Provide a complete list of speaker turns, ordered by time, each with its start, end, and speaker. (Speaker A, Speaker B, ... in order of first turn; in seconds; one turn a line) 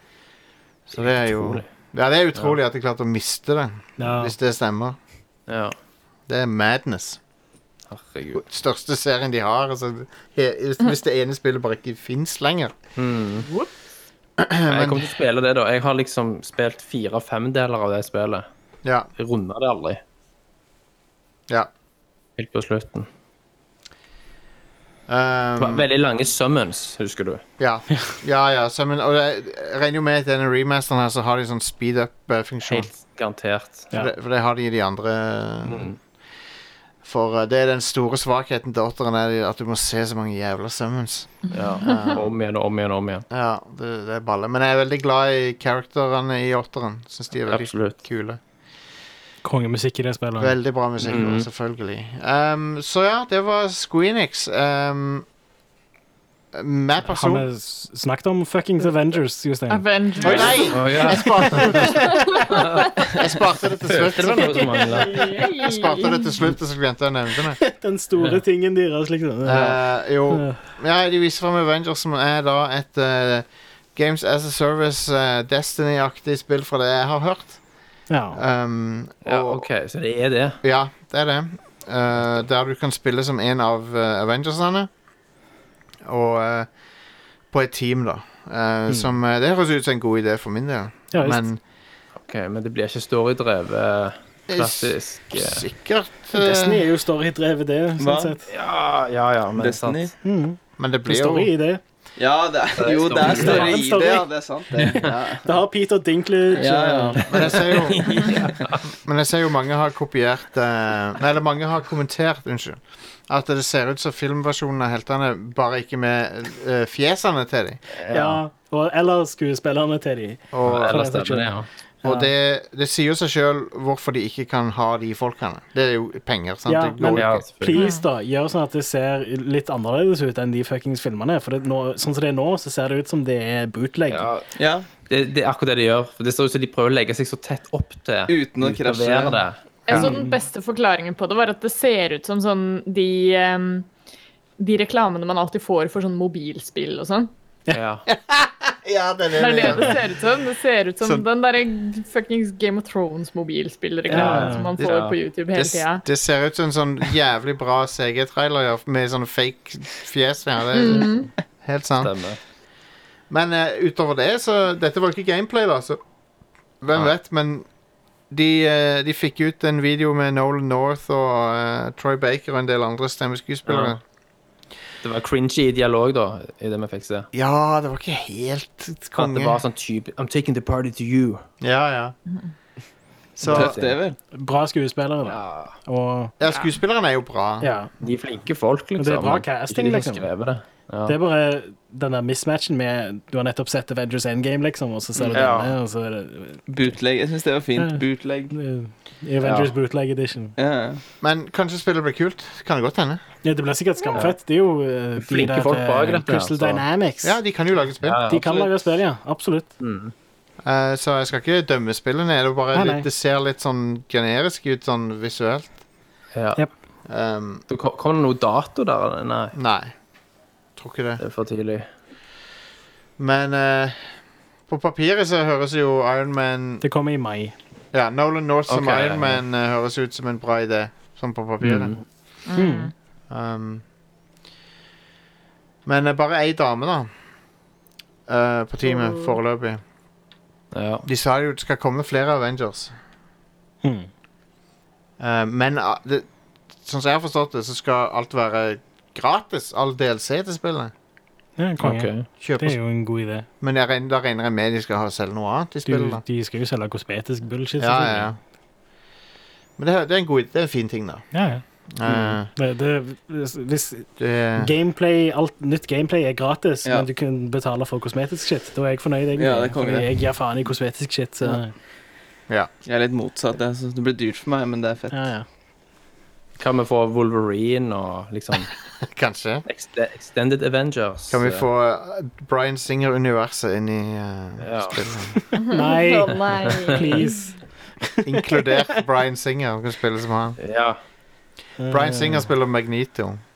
Speaker A: 0.9-5.0
Speaker B: 0.9-1.7
Speaker C: 4.0-4.3
Speaker B: 5.5-5.8
Speaker A: 6.3-7.2
Speaker B: 7.9-8.4
Speaker A: 8.3-12.7
Speaker B: 13.0-13.5
Speaker A: 14.4-15.1
Speaker B: 14.7-18.5
Speaker B: 19.2-20.0
Speaker B: 22.4-23.1
Speaker A: 25.1-25.9
Speaker B: 25.6-27.4
Speaker A: 27.6-32.9
Speaker B: 32.7-33.9
Speaker A: 33.9-35.9
Speaker B: 35.6-36.0
Speaker A: 37.0-42.3
Speaker D: 41.5-42.2
Speaker B: 41.5-43.2
Speaker A: 43.3-48.4
Speaker B: 47.5-48.0
Speaker C: 49.4-50.5
Speaker A: 50.4-55.3
Speaker B: 51.0-51.5
Speaker A: 56.5-57.5
Speaker C: 57.0-60.3
Speaker D: 59.7-61.0
Speaker A: 60.2-65.0
Speaker B: 60.2-65.2
Speaker D: 61.8-63.1
Speaker D: 64.8-66.3
Speaker A: 65.6-67.6
Speaker C: 67.6-70.6
Speaker A: 69.4-77.6
Speaker C: 78.1-78.4
Speaker A: 78.3-79.7
Speaker B: 79.2-80.6
Speaker A: 80.6-84.9
Speaker A: 86.0-86.7
Speaker A: 87.5-91.6
Speaker C: 91.1-91.5
Speaker B: 92.2-95.6
Speaker A: 94.5-96.8
Speaker C: 96.3-98.5
Speaker E: 98.0-98.4
Speaker B: 98.5-100.1
Speaker E: 99.6-100.1
Speaker C: 100.2-101.8
Speaker A: 100.8-101.5
Speaker E: 102.2-105.6
Speaker B: 102.8-103.8
Speaker C: 103.2-104.3
Speaker B: 104.8-105.1
Speaker C: 105.4-107.3
Speaker E: 106.5-107.2
Speaker B: 107.3-108.9
Speaker A: 107.3-117.8
Speaker B: 117.9-118.4
Speaker C: 118.1-122.3
Speaker A: 120.5-121.0
Speaker B: 120.6-121.7
Speaker A: 122.0-127.4
Speaker C: 126.7-134.3
Speaker B: 127.1-127.8
Speaker D: 127.7-128.1
Speaker B: 134.1-134.4
Speaker E: 134.6-134.8
Speaker B: 135.1-140.1
Speaker E: 138.3-139.4
Speaker D: 139.9-143.9
Speaker A: 139.9-140.2
Speaker D: 144.6-147.3
Speaker B: 147.7-148.1
Speaker A: 148.1-150.0
Speaker D: 149.3-156.0
Speaker C: 154.1-154.7
Speaker B: 154.1-155.2
Speaker A: 155.5-162.1
Speaker D: 160.7-161.3
Speaker B: 162.0-162.4
Speaker A: 163.3-166.0
Speaker A: 166.8-167.7
Speaker A: 168.3-174.0
Speaker B: 173.7-174.0
Speaker B: 175.0-177.3
Speaker A: 177.3-179.6
Speaker B: 179.1-181.4
Speaker A: 181.6-182.1
Speaker A: 183.4-183.8
Speaker E: 183.4-184.2
Speaker B: 183.4-183.9
Speaker C: 184.3-186.3
Speaker B: 185.2-185.8
Speaker A: 186.4-187.7
Speaker C: 187.6-187.9
Speaker B: 188.0-191.1
Speaker C: 189.0-190.2
Speaker C: 191.1-196.7
Speaker B: 195.3-195.7
Speaker E: 196.7-198.5
Speaker C: 197.8-200.5
Speaker E: 200.6-201.0
Speaker A: 201.2-203.2
Speaker C: 203.4-207.4
Speaker B: 205.2-206.8
Speaker A: 207.2-208.4
Speaker B: 208.0-208.7
Speaker C: 208.2-209.7
Speaker B: 209.8-210.1
Speaker A: 210.6-215.8
Speaker C: 212.7-213.1
Speaker B: 216.3-216.6
Speaker A: 217.1-217.6
Speaker B: 217.7-219.5
Speaker A: 219.5-219.9
Speaker A: 220.8-221.2
Speaker B: 221.2-221.9
Speaker A: 223.2-224.1
Speaker A: 224.7-226.8
Speaker C: 226.8-227.5
Speaker A: 227.9-231.9
Speaker B: 228.7-229.4
Speaker B: 231.6-232.0
Speaker D: 232.5-232.9
Speaker C: 232.5-232.9
Speaker A: 233.3-233.8
Speaker A: 235.8-237.1
Speaker A: 238.3-239.8
Speaker D: 238.9-239.3
Speaker B: 240.7-241.0
Speaker A: 241.0-242.9
Speaker C: 243.8-244.1
Speaker A: 245.2-246.3
Speaker A: 246.8-250.9
Speaker C: 251.6-253.5
Speaker B: 251.8-252.3
Speaker A: 252.4-252.8
Speaker A: 253.6-256.2
Speaker C: 255.8-258.3
Speaker A: 257.8-258.4
Speaker A: 259.8-261.2
Speaker C: 261.3-271.7
Speaker A: 261.9-262.5
Speaker A: 264.2-264.7
Speaker E: 269.4-270.1
Speaker E: 272.8-275.1
Speaker C: 275.1-275.4
Speaker B: 276.6-278.8
Speaker A: 279.0-279.6
Speaker B: 279.7-281.6
Speaker A: 281.3-285.4
Speaker B: 284.6-285.1
Speaker C: 285.3-288.8
Speaker D: 285.5-287.5
Speaker A: 288.2-290.6
Speaker B: 290.6-291.0
Speaker C: 291.8-292.5
Speaker A: 291.9-293.4